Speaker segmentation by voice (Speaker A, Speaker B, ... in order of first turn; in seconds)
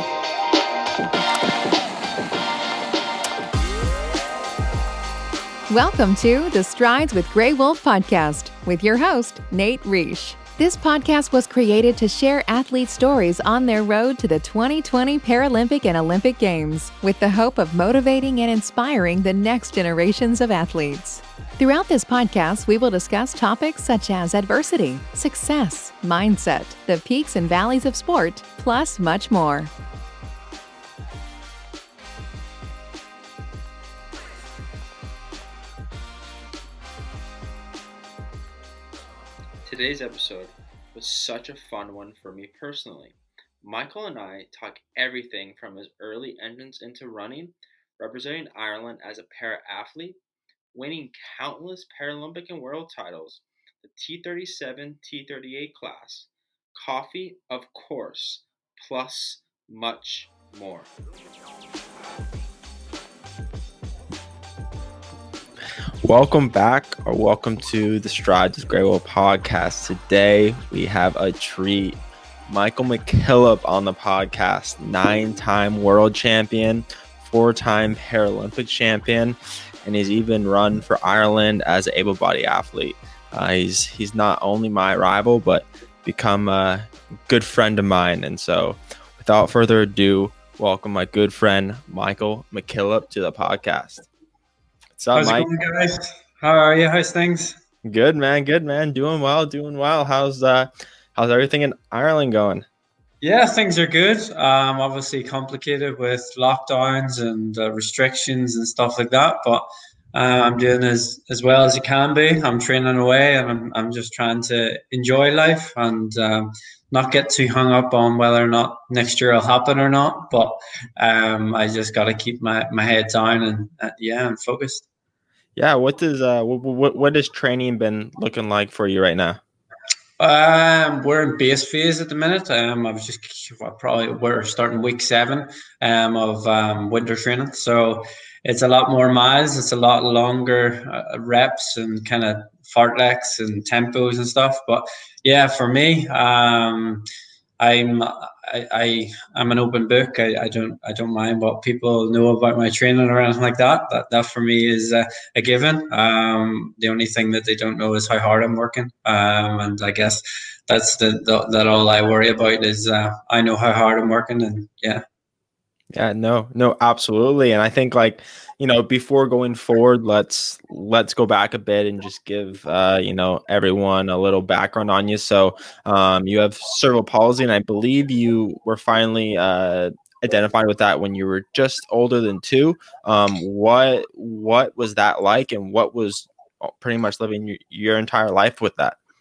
Speaker A: 5.7-29.7
Speaker B: 39.6-50.2, 50.7-60.9, 66.0-72.0, 72.5-94.1, 95.0-95.5, 97.8-102.7, 125.6-129.4, 165.9-189.0
Speaker C: 95.1-97.6, 103.2-124.8, 130.2-147.1, 147.6-165.0